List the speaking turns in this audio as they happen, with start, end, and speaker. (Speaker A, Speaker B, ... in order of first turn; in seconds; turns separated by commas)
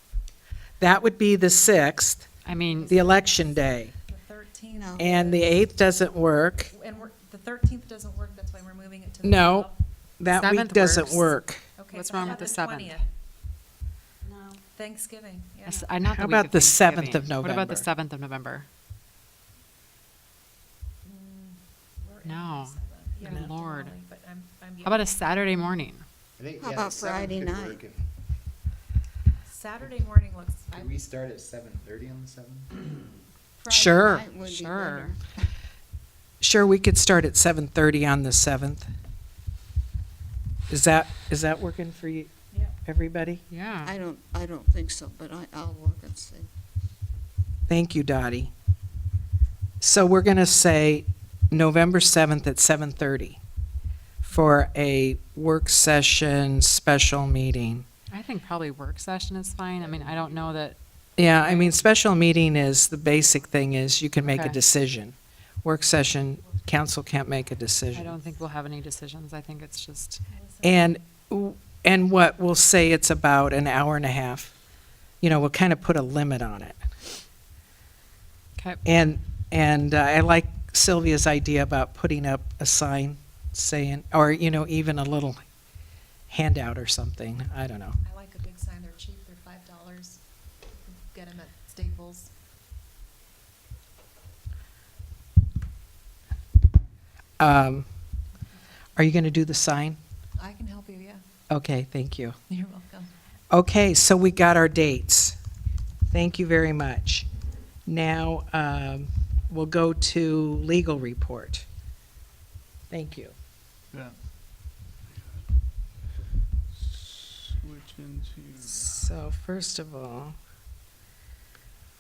Speaker A: 0.8-2.3, Speaker B: 2.4-3.0, Speaker C: 2.7-3.2, Speaker A: 2.9-3.9, Speaker C: 4.1-5.1, Speaker D: 4.7-5.5, Speaker A: 5.0-6.7, Speaker C: 6.7-9.7, Speaker A: 9.2-11.6, Speaker B: 10.3-11.3, Speaker C: 11.8-13.1, Speaker B: 11.9-13.0, Speaker C: 14.8-15.9, Speaker B: 15.7-18.7, Speaker A: 16.1-17.9, Speaker C: 21.0-25.2, Speaker B: 22.2-23.9, Speaker B: 24.8-26.0, Speaker E: 26.4-28.0, Speaker D: 26.6-27.8, Speaker C: 29.4-31.0, Speaker E: 30.7-33.2, Speaker D: 33.6-35.3, Speaker A: 33.7-34.3, Speaker B: 34.4-35.1, Speaker A: 36.4-38.9, Speaker A: 40.7-42.3, Speaker A: 42.8-43.4, Speaker B: 43.5-43.9, Speaker D: 43.8-46.5, Speaker A: 47.7-48.5, Speaker A: 49.8-53.4, Speaker A: 54.2-57.8, Speaker B: 58.1-60.8, Speaker A: 61.2-68.2, Speaker B: 64.3-64.6, Speaker B: 67.9-70.2, Speaker A: 70.6-74.5, Speaker A: 75.2-76.8, Speaker A: 78.8-85.4, Speaker A: 86.3-88.0, Speaker C: 88.0-90.2, Speaker C: 90.8-92.3, Speaker A: 97.4-97.9, Speaker A: 99.0-100.0, Speaker C: 100.4-101.2, Speaker A: 101.5-102.3, Speaker C: 102.5-103.1, Speaker A: 103.5-105.4, Speaker A: 106.1-107.3, Speaker A: 107.9-111.7, Speaker A: 112.9-113.3, Speaker F: 116.7-118.9, Speaker A: 118.6-120.3